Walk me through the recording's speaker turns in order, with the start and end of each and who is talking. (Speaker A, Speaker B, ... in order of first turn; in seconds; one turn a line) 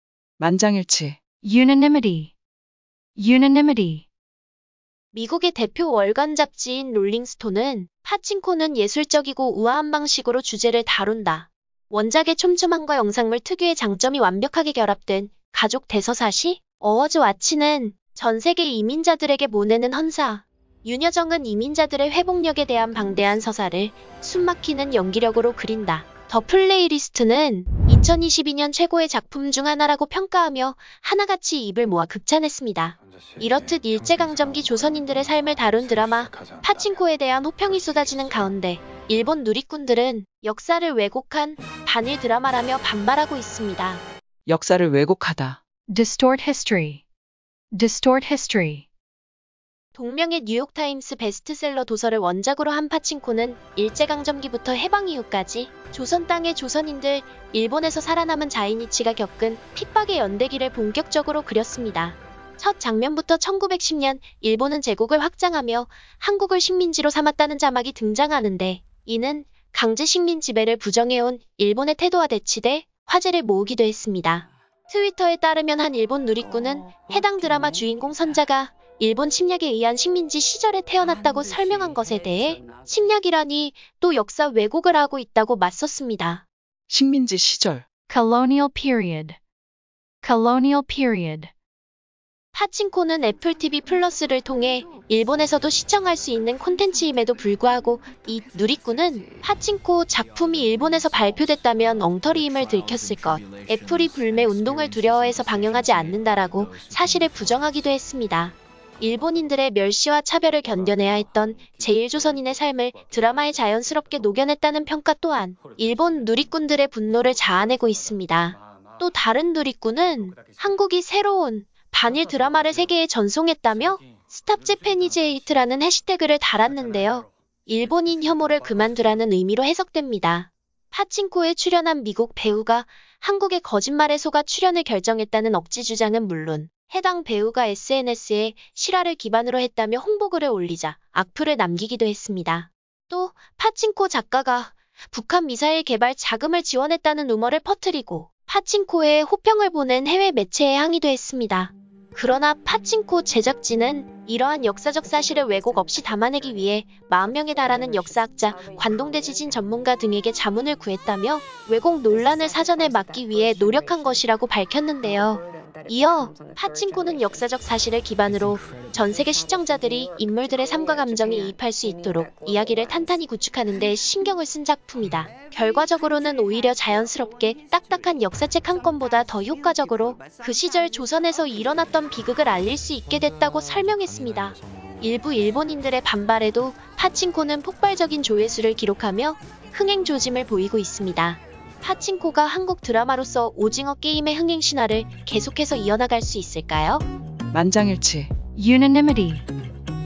Speaker A: 0.4-1.2
Speaker B: 1.4-2.3
Speaker B: 3.2-4.0
Speaker C: 5.1-44.0
Speaker A: 44.5-45.6
Speaker B: 45.9-47.0
Speaker B: 47.7-48.8
Speaker C: 49.9-86.4
Speaker A: 86.9-87.8
Speaker B: 88.1-89.4
Speaker B: 90.2-91.5
Speaker C: 92.5-197.0
Speaker A: 197.5-198.3
Speaker B: 198.6-199.4